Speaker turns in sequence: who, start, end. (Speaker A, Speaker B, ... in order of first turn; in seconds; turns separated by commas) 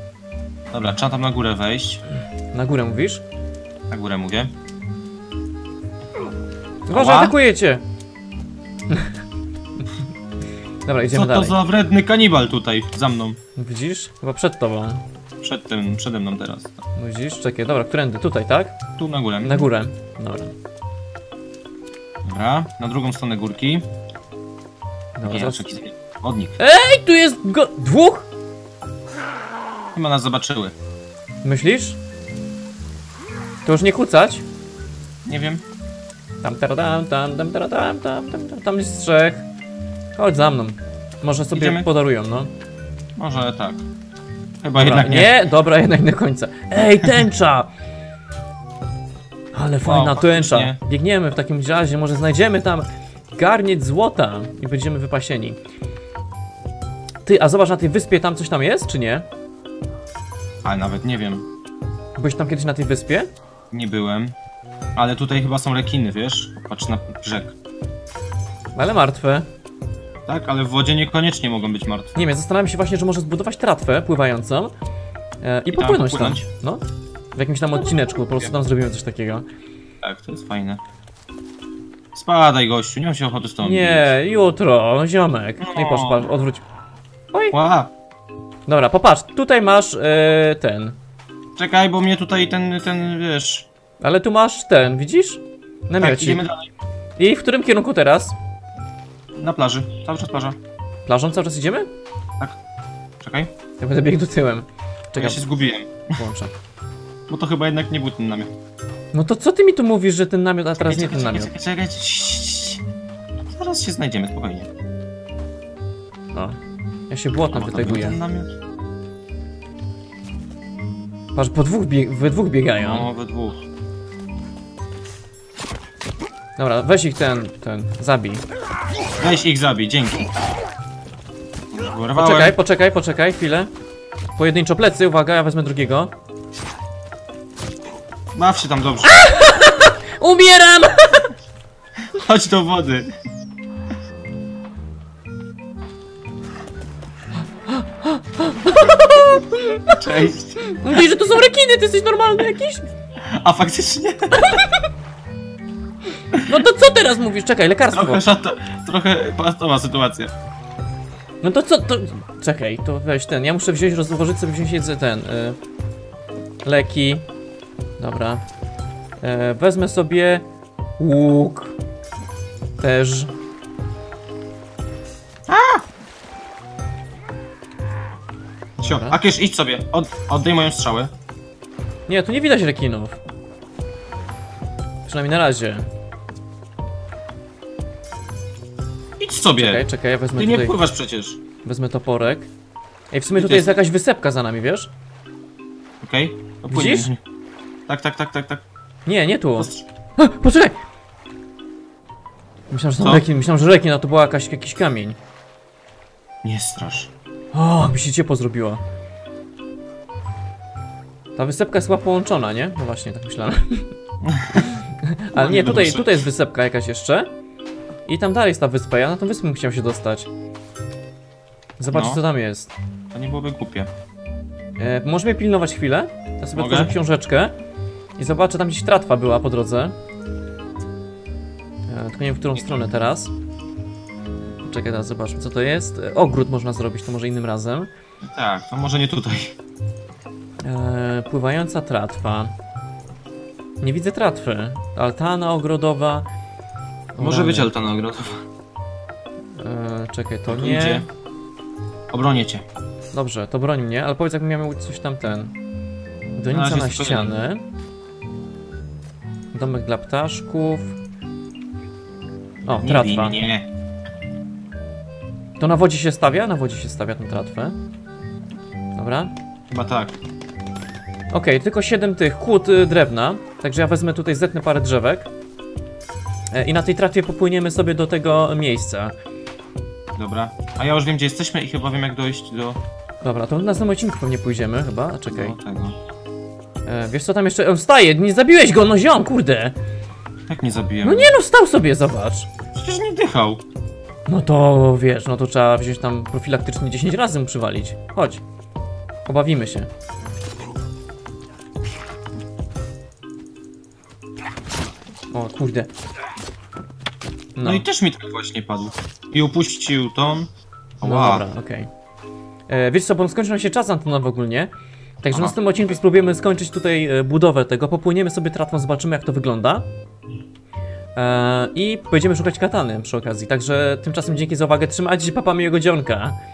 Speaker A: 0.7-2.0, Speaker B: 2.5-3.2, Speaker A: 3.9-4.5, Speaker B: 6.8-7.8, Speaker A: 6.9-7.4, Speaker B: 8.9-9.1, Speaker B: 10.8-11.6, Speaker A: 11.1-13.4, Speaker B: 13.6-15.0, Speaker A: 15.4-16.8, Speaker B: 17.0-18.8, Speaker A: 19.0-19.7, Speaker B: 19.4-20.5, Speaker A: 22.2-23.9, Speaker B: 25.1-25.6, Speaker A: 25.2-26.6, Speaker B: 26.6-28.3, Speaker A: 29.9-30.7, Speaker B: 31.4-32.0, Speaker B: 33.6-34.4, Speaker A: 35.2-35.6, Speaker B: 36.4-39.5, Speaker B: 40.1-42.5, Speaker A: 41.5-41.9, Speaker A: 43.2-43.8, Speaker A: 44.6-45.4, Speaker B: 44.8-47.7, Speaker B: 49.5-55.6, Speaker A: 49.8-50.8, Speaker B: 57.2-59.2, Speaker A: 60.6-61.5, Speaker B: 62.2-63.3, Speaker A: 63.7-64.3, Speaker A: 65.0-67.5, Speaker B: 68.8-69.5, Speaker A: 70.3-72.2, Speaker B: 72.2-74.7, Speaker B: 75.4-76.8, Speaker A: 75.7-76.5, Speaker B: 77.3-79.4, Speaker A: 77.8-78.5, Speaker A: 80.0-80.8, Speaker A: 82.1-84.1, Speaker B: 83.6-86.6, Speaker A: 85.6-86.3, Speaker A: 87.5-87.9, Speaker B: 88.7-91.0, Speaker A: 91.6-93.7, Speaker B: 94.0-96.4, Speaker A: 96.0-96.7, Speaker B: 97.2-98.3, Speaker A: 99.3-100.6, Speaker B: 101.0-101.9, Speaker A: 103.2-103.5, Speaker B: 103.8-105.5, Speaker A: 105.2-106.2, Speaker B: 106.2-106.5, Speaker A: 107.3-108.5, Speaker B: 109.1-111.5, Speaker A: 110.8-112.8, Speaker A: 113.5-114.7, Speaker B: 117.1-118.2, Speaker A: 117.5-118.5, Speaker B: 121.3-123.1, Speaker A: 122.8-123.6, Speaker B: 126.6-128.4, Speaker A: 129.2-130.3, Speaker A: 131.7-132.6, Speaker B: 132.2-133.7, Speaker B: 134.4-136.1, Speaker A: 138.3-139.2, Speaker B: 139.0-141.3, Speaker A: 142.0-143.1, Speaker B: 147.7-150.0, Speaker A: 149.9-151.0, Speaker B: 150.7-152.8, Speaker A: 153.2-154.6, Speaker B: 154.3-154.9, Speaker B: 156.4-158.2, Speaker A: 157.9-160.3, Speaker B: 161.4-165.6, Speaker B: 166.6-167.3, Speaker B: 168.0-168.4, Speaker B: 169.2-170.4, Speaker B: 171.0-171.8, Speaker B: 172.8-173.3, Speaker A: 175.5-175.8, Speaker B: 178.8-179.2, Speaker A: 178.8-181.1, Speaker B: 182.1-183.2, Speaker B: 185.1-185.9, Speaker A: 189.2-191.4, Speaker B: 189.6-190.8, Speaker B: 191.6-192.5, Speaker B: 193.1-194.9, Speaker A: 193.3-193.8, Speaker A: 196.0-197.2, Speaker B: 196.7-197.1, Speaker A: 197.9-198.6, Speaker B: 199.1-200.8, Speaker A: 199.6-199.8, Speaker B: 202.7-205.2, Speaker A: 203.0-203.2, Speaker A: 206.4-207.1, Speaker B: 207.5-208.8, Speaker B: 211.3-213.9, Speaker A: 214.2-214.7, Speaker B: 214.5-217.3, Speaker A: 215.3-216.2, Speaker B: 218.1-220.3, Speaker B: 221.8-222.7, Speaker A: 221.9-222.2, Speaker A: 223.1-223.9, Speaker B: 224.8-227.5, Speaker A: 226.6-226.9, Speaker B: 228.2-229.9, Speaker B: 231.9-233.3, Speaker B: 234.6-237.9, Speaker A: 238.2-239.6, Speaker B: 240.6-242.5, Speaker B: 243.8-246.2, Speaker B: 247.1-247.7, Speaker A: 247.2-248.4, Speaker B: 249.5-251.0, Speaker A: 250.5-251.1, Speaker A: 252.1-252.6, Speaker B: 253.1-255.5, Speaker B: 256.4-257.6, Speaker A: 256.5-257.3, Speaker B: 259.5-261.0, Speaker B: 262.6-263.4, Speaker A: 262.8-263.7, Speaker B: 265.6-267.8, Speaker B: 268.9-269.3, Speaker A: 269.7-270.2, Speaker B: 271.3-275.3, Speaker B: 276.5-279.1, Speaker A: 280.1-282.8, Speaker B: 283.2-285.6, Speaker A: 285.3-286.0, Speaker B: 286.9-289.7, Speaker A: 290.5-291.3, Speaker B: 291.0-292.5, Speaker A: 292.7-293.6, Speaker B: 294.3-298.4, Speaker B: 299.2-299.9, Speaker B: 305.3-305.9, Speaker B: 307.6-307.8, Speaker A: 307.6-310.5, Speaker A: 311.0-311.4, Speaker B: 311.0-311.9, Speaker B: 312.7-314.7, Speaker B: 315.2-319.9, Speaker A: 315.3-315.6, Speaker B: 321.1-326.4